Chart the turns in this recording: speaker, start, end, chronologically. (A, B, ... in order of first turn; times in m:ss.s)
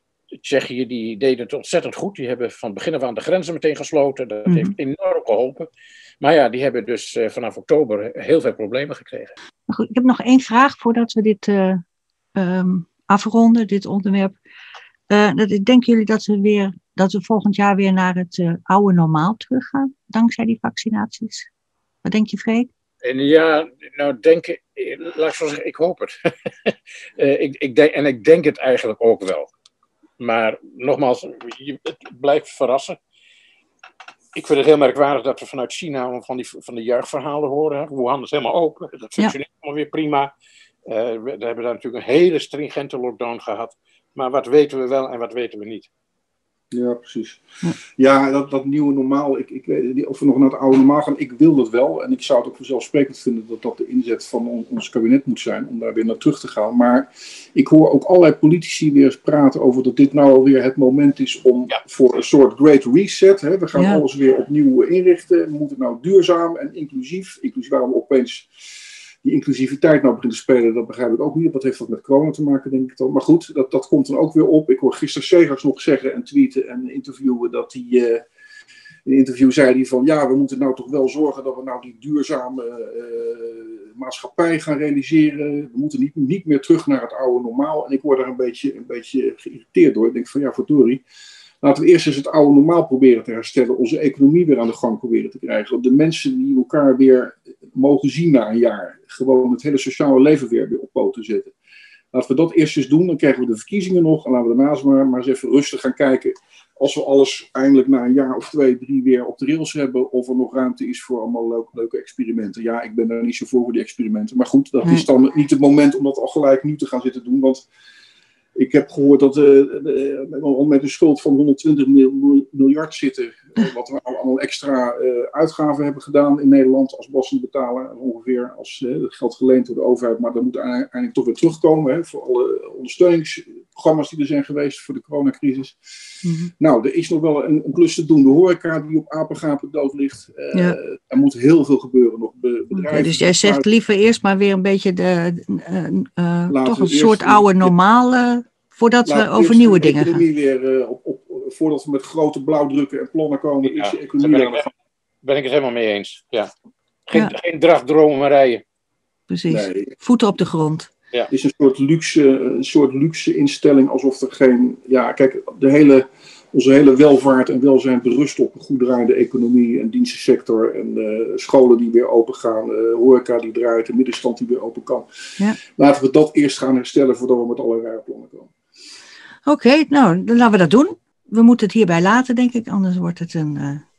0:00.4-0:05.7 A
0:04.5-0:04.7 B
0:06.2-0:09.3 A
0:09.7-0:11.8 B
0:12.3-0:14.3 B
0:15.1-0:21.5 B
0:22.0-0:22.7 B
0:23.0-0:29.5 A
0:30.2-0:33.0 A
0:34.3-0:40.3 A
0:40.8-0:45.9 A
0:46.7-1:08.5 C
1:03.8-1:04.0 B
1:09.2-1:18.2 C
1:19.0-1:31.0 C
1:31.6-1:41.5 C
1:42.1-1:57.6 C
1:58.5-2:15.8 C
2:16.2-2:16.5 B
2:16.6-2:23.6 C
2:22.7-2:30.2 B
2:26.5-2:27.7 C
2:29.0-2:34.7 C
2:33.6-2:34.6 A
2:35.2-2:36.5 A
2:37.1-2:38.6 A
2:39.3-2:40.9 B
2:39.5-2:39.9 C
2:41.3-2:55.1 C
2:55.6-2:58.5 C
2:59.4-3:03.8 B